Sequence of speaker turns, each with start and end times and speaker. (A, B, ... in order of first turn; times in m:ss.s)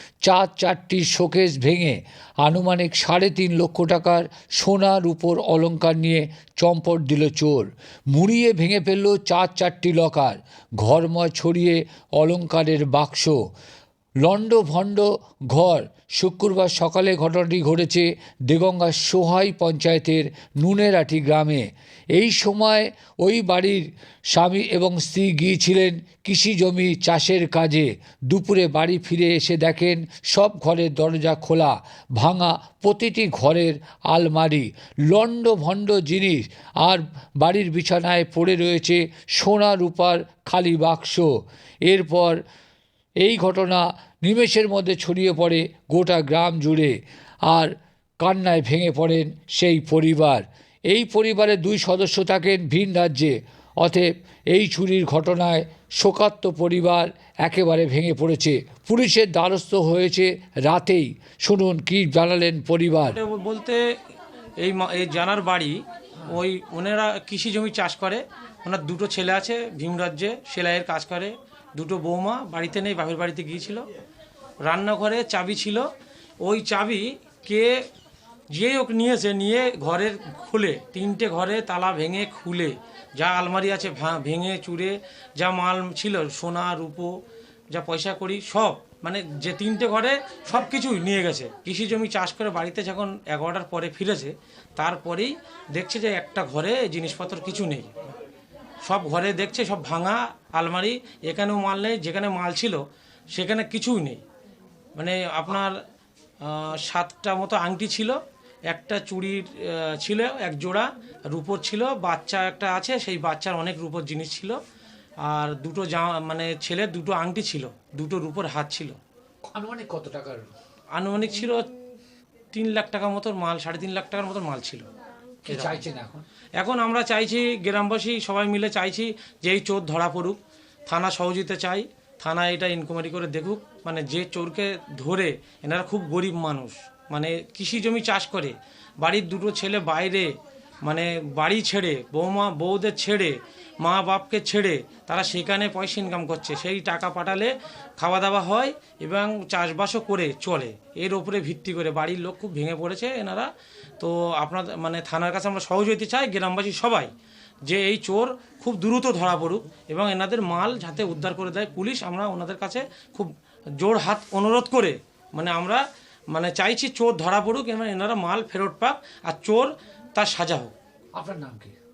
0:00.2-0:13.4 A
0:14.2-0:42.4 A
0:43.2-1:03.2 A
1:03.1-1:03.8 B
1:04.6-1:13.8 B
1:14.6-1:15.8 B
1:16.4-1:17.8 B
1:18.5-1:38.1 B
1:38.8-1:44.2 B
1:45.0-1:45.7 B
1:46.4-1:48.2 B
1:48.7-1:54.6 B
1:55.2-1:59.0 B
1:59.5-2:00.5 A
2:00.9-2:01.7 B
2:02.5-2:04.8 B
2:05.4-2:06.2 A
2:05.5-2:05.8 B
2:06.6-2:20.3 B
2:20.8-2:37.1 B
2:37.6-2:50.7 B
2:51.2-2:51.7 A